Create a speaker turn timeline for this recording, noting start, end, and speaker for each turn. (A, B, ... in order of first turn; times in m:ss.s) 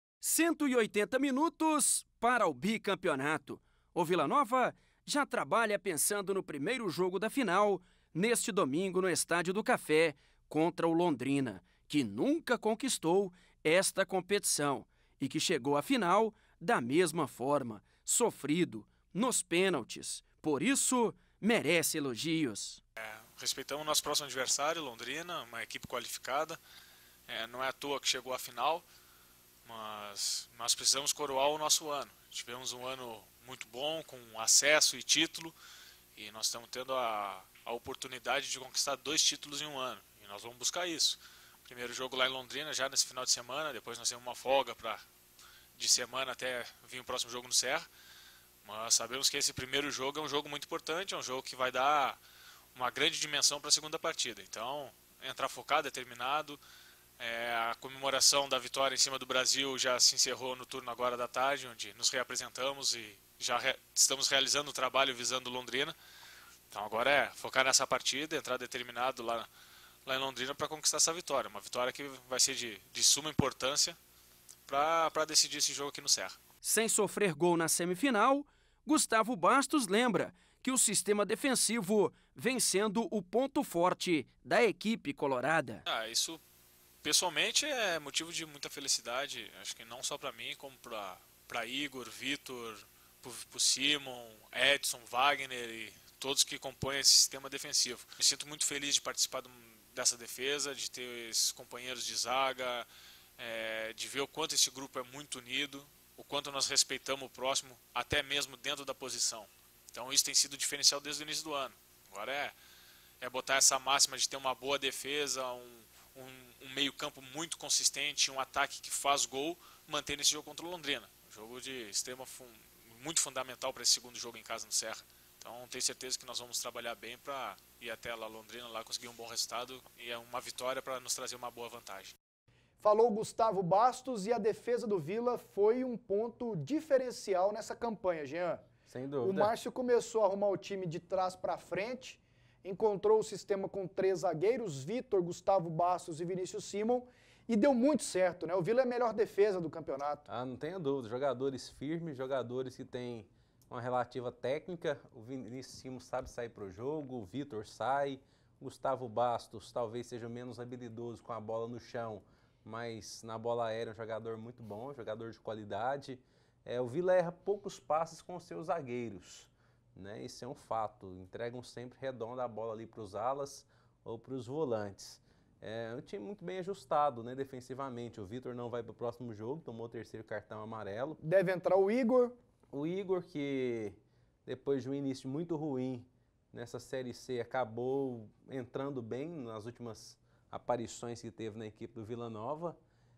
0:00.2-0:22.8 A
0:23.0-0:26.6 B
0:27.3-0:28.8 B
0:29.6-0:35.6 B
0:36.2-0:45.0 B
0:45.8-0:47.9 B
0:48.6-0:52.2 B
0:52.7-0:56.6 B
0:57.2-1:06.0 B
1:06.7-1:09.5 B
1:10.1-1:14.0 B
1:14.7-1:16.4 B
1:16.6-1:25.8 A
1:25.9-1:26.4 B
1:27.0-1:52.6 B
1:53.2-2:12.2 B
2:12.8-2:18.7 C
2:18.9-2:19.5 D
2:19.2-2:30.3 C
2:30.3-3:01.2 D
3:01.2-3:02.4 C
3:02.7-3:12.8 D